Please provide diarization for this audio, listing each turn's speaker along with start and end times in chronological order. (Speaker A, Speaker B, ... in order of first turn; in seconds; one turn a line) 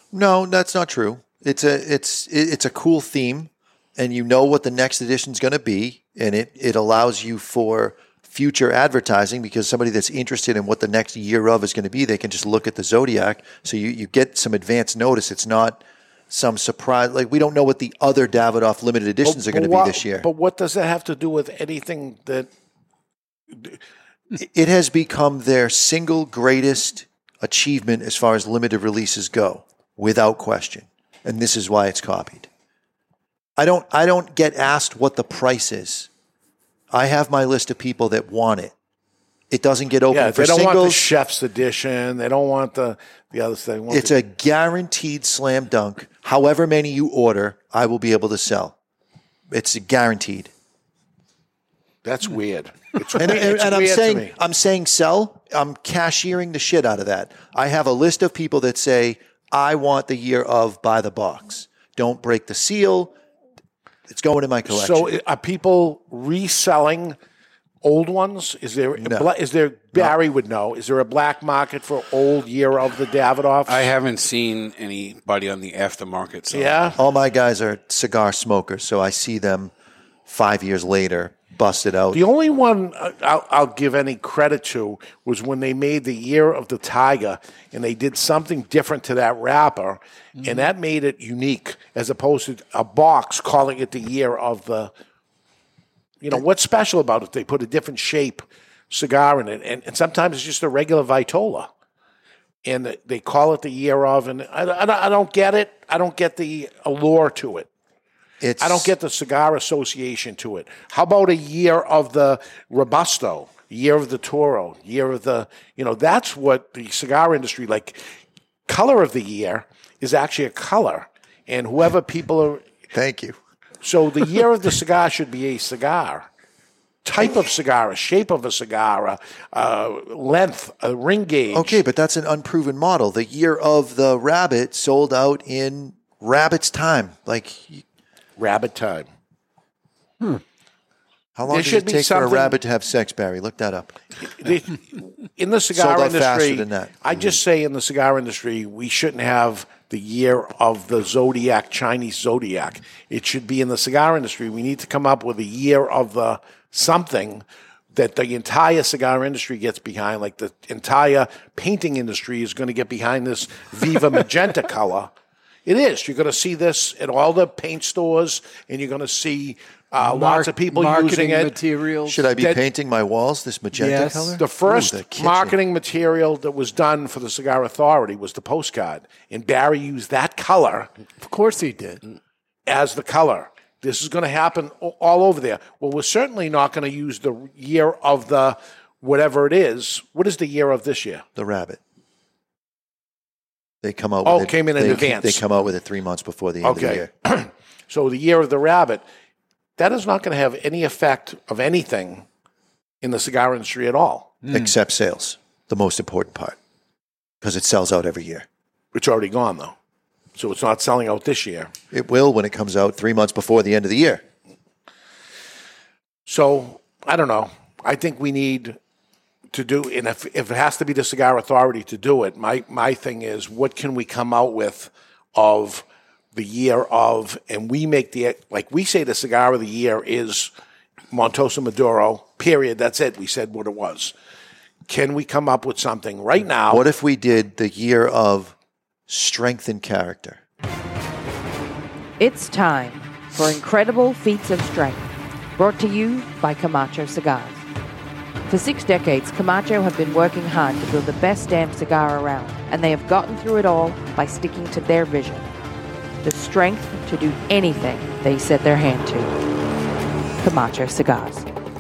Speaker A: 0.1-20.3
Speaker B: 19.2-22.5
Speaker A: 24.4-32.5
Speaker A: 33.6-36.1
Speaker A: 36.9-38.7
Speaker A: 39.5-41.1
Speaker B: 40.1-44.1
Speaker A: 43.9-48.8
Speaker A: 49.5-50.5
Speaker B: 52.0-54.3
Speaker A: 53.1-63.1
Speaker A: 64.1-65.1
Speaker B: 64.7-67.2
Speaker B: 67.8-73.9
Speaker A: 69.0-69.3
Speaker C: 73.7-77.0
Speaker B: 76.5-77.0
Speaker A: 77.0-79.7
Speaker A: 80.3-82.2
Speaker B: 82.1-94.9
Speaker B: 96.2-101.7
Speaker B: 102.7-107.7
Speaker A: 108.4-108.9
Speaker B: 108.6-118.0
Speaker B: 118.7-122.7
Speaker A: 122.9-123.4
Speaker B: 123.8-126.3
Speaker B: 127.0-131.8
Speaker A: 131.5-137.8
Speaker B: 138.4-139.1
Speaker A: 141.4-144.0
Speaker B: 141.5-142.6
Speaker B: 144.3-165.1
Speaker A: 145.7-147.0
Speaker B: 165.7-171.5
Speaker D: 170.0-172.3
Speaker A: 172.1-175.6
Speaker B: 172.4-172.6
Speaker D: 173.7-174.4
Speaker B: 174.4-180.9
Speaker D: 181.2-182.0
Speaker B: 182.7-191.2
Speaker A: 191.4-191.8
Speaker A: 193.8-197.1
Speaker B: 194.2-195.5
Speaker B: 196.6-199.0
Speaker B: 199.8-202.2
Speaker B: 203.0-204.5
Speaker A: 204.5-206.6
Speaker A: 207.4-208.5
Speaker B: 208.9-209.7
Speaker B: 210.4-211.7
Speaker A: 211.9-214.2
Speaker B: 216.3-218.8
Speaker B: 219.5-230.5
Speaker B: 231.1-234.1
Speaker B: 234.9-236.9
Speaker A: 236.7-238.6
Speaker A: 239.1-240.4
Speaker E: 242.2-247.6
Speaker E: 248.5-255.5
Speaker E: 256.2-259.3
Speaker E: 260.4-261.5